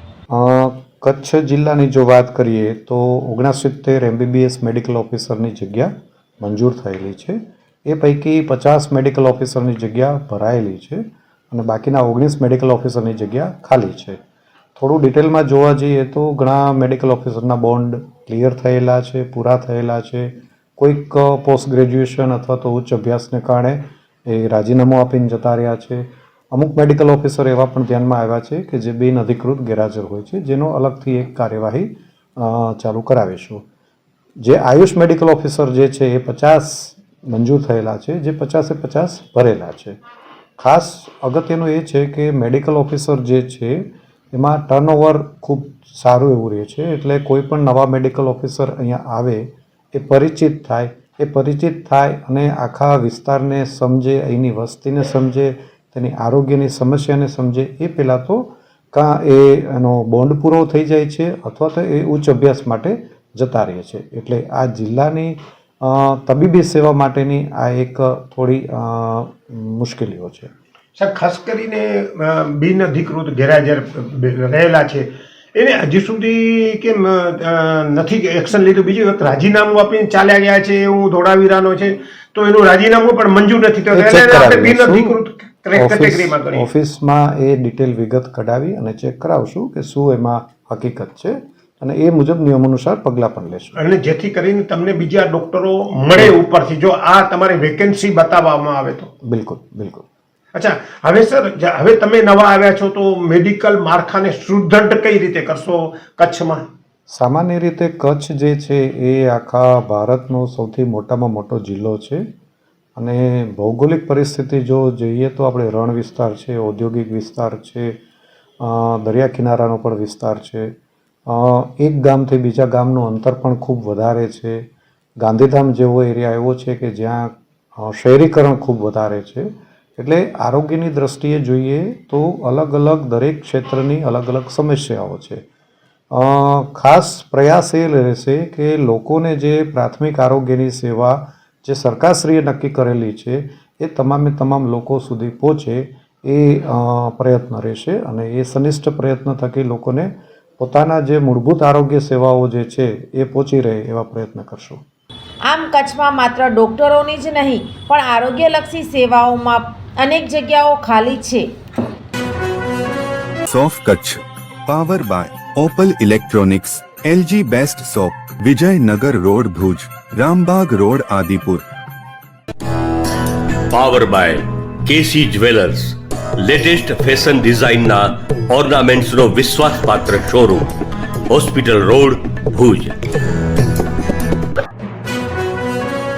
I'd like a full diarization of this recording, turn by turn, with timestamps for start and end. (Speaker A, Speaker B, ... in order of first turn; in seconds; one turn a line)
Speaker A: 0.3-14.2
Speaker A: 14.8-33.6
Speaker A: 34.4-39.9
Speaker A: 40.6-70.5
Speaker B: 71.0-86.6
Speaker A: 83.9-85.2
Speaker A: 85.8-93.8
Speaker B: 93.8-99.1
Speaker A: 99.2-100.0
Speaker B: 100.5-106.6
Speaker A: 107.1-112.2
Speaker A: 113.0-118.0
Speaker A: 118.6-120.7
Speaker A: 121.3-124.6
Speaker A: 125.2-135.4
Speaker A: 136.1-154.8
Speaker C: 155.4-161.5
Speaker D: 163.5-171.6
Speaker E: 173.7-180.7
Speaker E: 181.3-182.9